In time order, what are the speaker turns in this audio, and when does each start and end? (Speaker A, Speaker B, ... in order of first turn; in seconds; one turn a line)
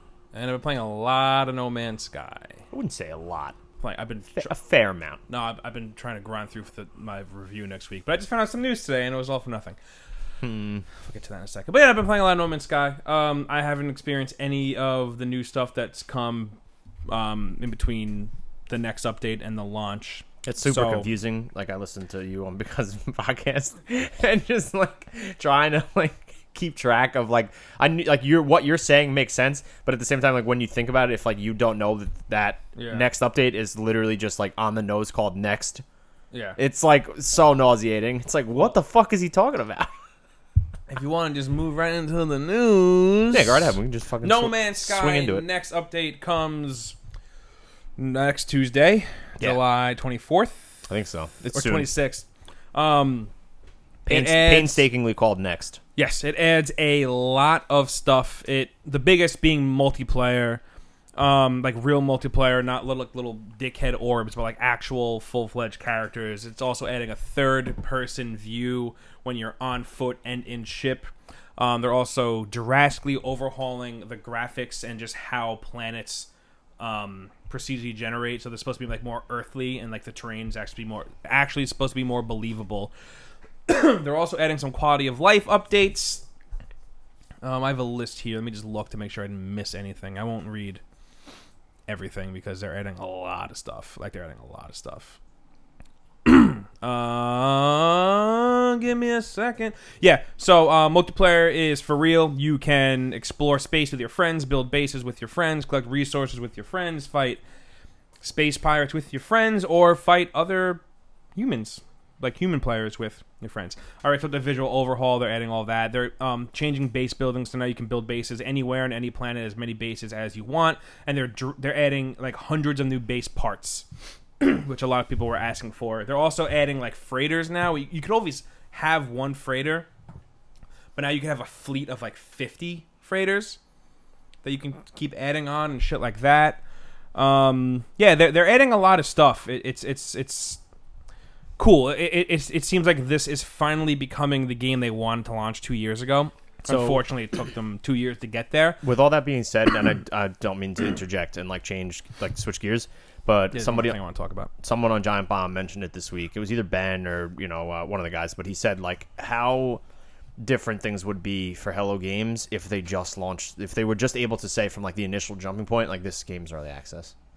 Speaker A: 0.3-2.6
Speaker B: 2.7-3.6
Speaker A: 3.8-4.5
Speaker B: 4.4-5.2
Speaker A: 5.3-9.8
Speaker B: 10.4-10.8
Speaker A: 11.0-16.6
Speaker A: 17.1-21.1
Speaker B: 20.4-35.8
Speaker A: 32.8-33.1
Speaker A: 36.3-36.6
Speaker B: 36.6-39.9
Speaker A: 40.9-46.9
Speaker B: 43.3-45.5
Speaker A: 48.0-50.6
Speaker B: 50.9-51.9
Speaker A: 51.5-53.3
Speaker A: 54.0-54.9
Speaker B: 54.0-55.8
Speaker A: 56.0-60.6
Speaker A: 61.1-82.9
Speaker A: 83.7-86.2
Speaker A: 87.4-90.8
Speaker A: 91.9-95.2
Speaker A: 96.2-107.4
Speaker A: 108.2-110.8
Speaker A: 111.3-123.8
Speaker A: 124.4-129.9
Speaker A: 130.9-133.6
Speaker A: 134.4-136.6
Speaker A: 137.1-140.6
Speaker A: 141.6-148.8
Speaker B: 148.8-154.0
Speaker A: 153.5-154.5
Speaker B: 154.6-159.8
Speaker B: 160.4-167.1